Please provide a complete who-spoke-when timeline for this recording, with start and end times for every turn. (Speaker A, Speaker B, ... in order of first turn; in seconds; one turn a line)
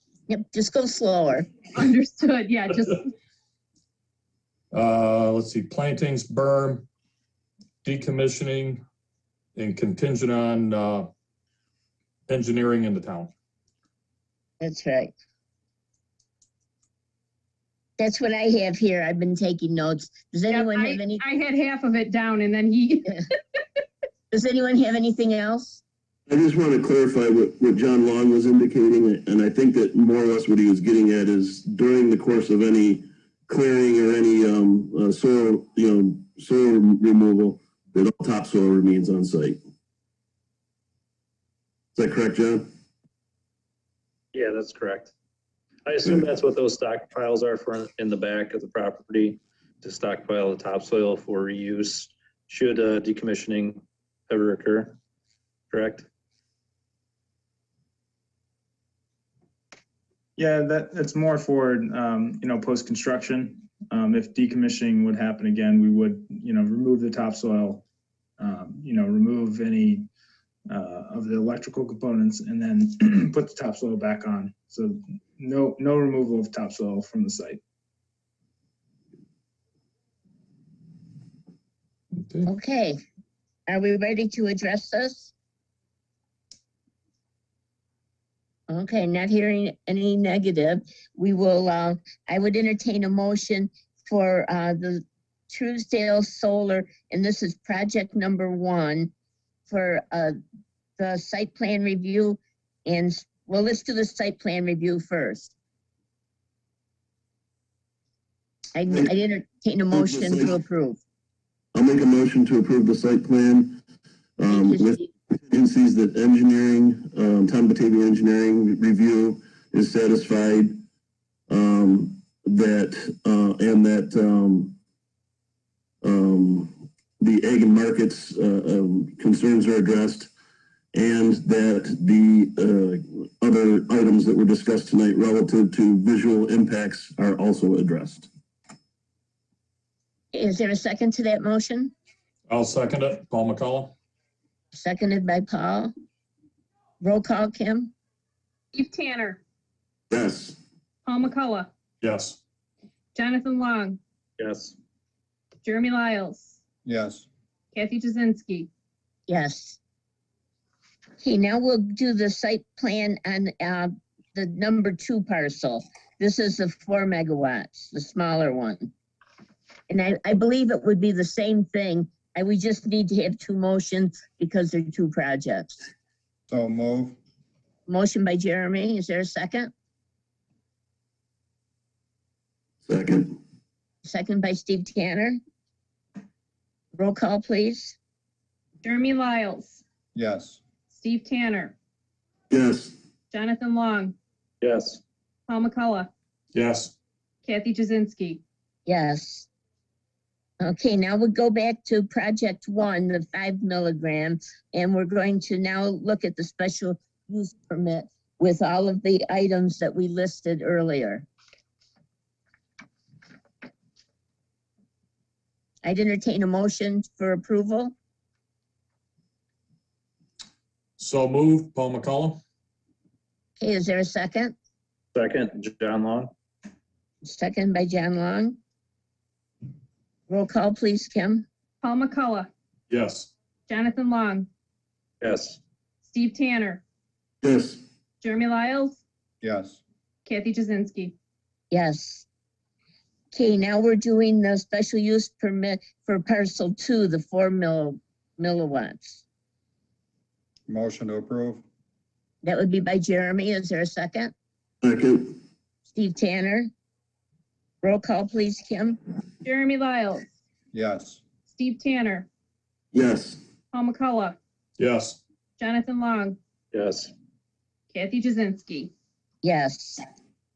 Speaker A: 0.3-1.5
Speaker B: 1.8-3.1
Speaker C: 4.7-6.9
Speaker C: 7.8-8.8
Speaker C: 9.6-11.1
Speaker C: 12.3-13.3
Speaker A: 14.6-15.1
Speaker A: 18.0-21.2
Speaker B: 20.5-23.4
Speaker A: 24.3-25.8
Speaker D: 26.3-39.6
Speaker D: 42.0-42.7
Speaker E: 44.3-45.1
Speaker E: 45.9-55.0
Speaker E: 55.7-56.1
Speaker F: 60.4-67.8
Speaker F: 68.4-70.1
Speaker F: 70.7-77.6
Speaker C: 82.2-82.5
Speaker A: 82.5-83.0
Speaker A: 83.7-85.3
Speaker A: 88.7-99.1
Speaker A: 99.7-100.4
Speaker A: 101.0-105.5
Speaker A: 108.8-111.0
Speaker D: 109.9-110.5
Speaker D: 111.7-113.8
Speaker D: 114.4-120.7
Speaker A: 114.5-115.1
Speaker D: 121.5-124.8
Speaker D: 126.0-130.3
Speaker D: 130.9-138.3
Speaker A: 140.3-141.9
Speaker C: 142.5-143.9
Speaker A: 144.7-145.9
Speaker A: 147.0-147.9
Speaker B: 148.7-149.4
Speaker D: 150.1-150.6
Speaker B: 151.0-151.7
Speaker C: 152.0-152.4
Speaker B: 153.2-154.0
Speaker E: 154.4-154.8
Speaker B: 155.6-156.6
Speaker G: 156.8-157.3
Speaker B: 157.7-158.7
Speaker A: 159.3-159.8
Speaker A: 161.2-168.9
Speaker A: 169.9-175.9
Speaker G: 176.5-177.2
Speaker A: 177.9-179.7
Speaker D: 182.8-183.4
Speaker A: 184.0-185.4
Speaker A: 186.9-188.0
Speaker B: 188.8-189.8
Speaker G: 190.2-190.6
Speaker B: 190.9-191.8
Speaker D: 192.5-192.9
Speaker B: 193.3-194.2
Speaker E: 194.6-195.0
Speaker B: 195.5-196.1
Speaker C: 196.5-196.9
Speaker B: 197.4-198.4
Speaker A: 198.9-199.5
Speaker A: 200.6-211.3
Speaker A: 215.8-217.9
Speaker C: 221.0-222.4
Speaker A: 223.6-224.6
Speaker E: 225.1-226.3
Speaker A: 227.2-228.6
Speaker A: 230.3-231.5
Speaker B: 231.8-232.5
Speaker C: 232.9-233.3
Speaker B: 233.7-234.5
Speaker E: 235.2-235.6
Speaker B: 236.0-236.8
Speaker D: 237.4-237.8
Speaker B: 238.2-239.0
Speaker G: 239.4-239.8
Speaker B: 240.2-241.2
Speaker A: 241.7-242.3
Speaker A: 243.3-249.2
Speaker G: 250.7-251.6
Speaker A: 252.4-254.3
Speaker D: 254.8-255.4
Speaker A: 255.9-256.7
Speaker A: 257.8-259.0
Speaker B: 259.4-260.2
Speaker G: 260.7-261.2
Speaker B: 261.5-262.3
Speaker D: 262.9-263.4
Speaker B: 263.7-264.4
Speaker C: 264.8-265.2
Speaker B: 265.6-266.4
Speaker E: 266.7-267.1
Speaker B: 267.9-268.9
Speaker A: 269.4-270.0